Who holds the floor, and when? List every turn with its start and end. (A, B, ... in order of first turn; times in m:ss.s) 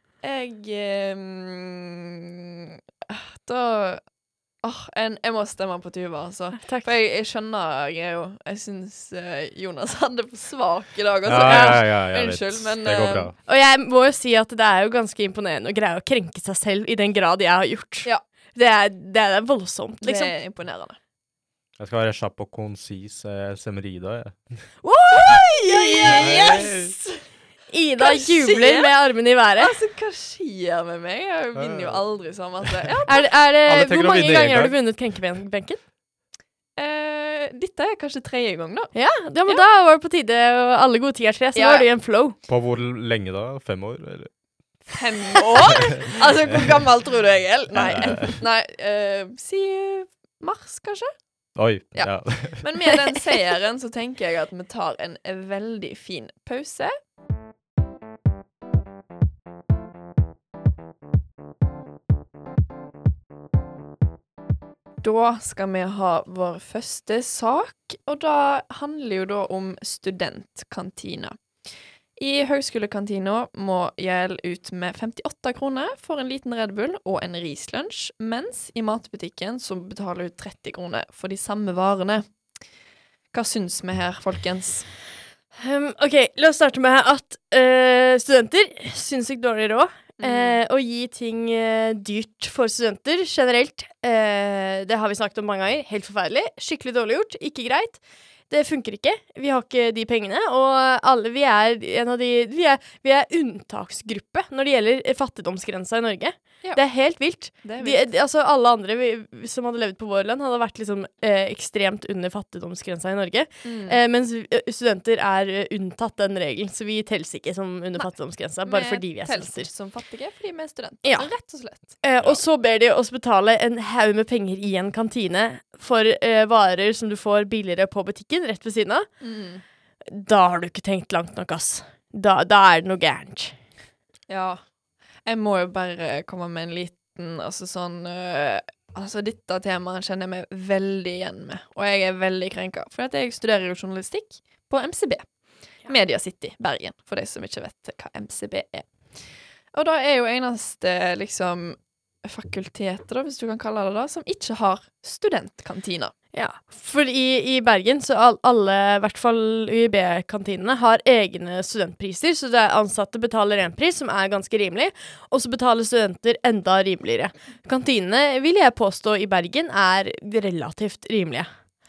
0:00.2-0:04.0 A
0:04.6-0:13.3 A
0:06.6-0:06.9 B
0:11.2-0:13.4 C
0:11.4-0:11.8 B
0:13.5-0:20.3 B
0:20.0-0:21.0 A
0:21.8-0:24.6 C
0:24.8-0:26.4 B
0:25.3-0:27.2 A
0:26.0-0:26.9 C
0:27.7-0:29.8 B
0:28.0-0:28.9 A
0:29.6-0:33.2 A
0:31.6-0:32.0 C
0:32.6-0:33.1 C
0:33.1-0:35.8 B
0:33.6-0:34.8 C
0:36.8-0:39.0 A
0:38.9-0:42.4 B
0:41.6-0:41.9 A
0:42.5-0:44.3 C
0:44.9-0:51.1 A
0:45.9-0:46.6 C
0:47.7-0:48.4 C
0:51.6-0:52.7 C
0:52.0-0:56.9 A
1:05.0-1:11.4 A
1:12.2-1:22.2 A
1:23.3-1:24.9 A
1:25.6-1:59.7 B
1:30.2-1:30.6 A
1:47.6-1:48.1 A
1:53.6-1:54.0 A
1:58.6-2:01.8 A
2:02.0-2:09.1 B
2:09.2-2:09.6 A
2:10.1-2:13.5 B
2:14.3-2:14.6 A
2:15.3-2:25.3 A
2:25.8-2:28.9 A
2:29.7-2:36.1 A
2:36.3-2:51.5 B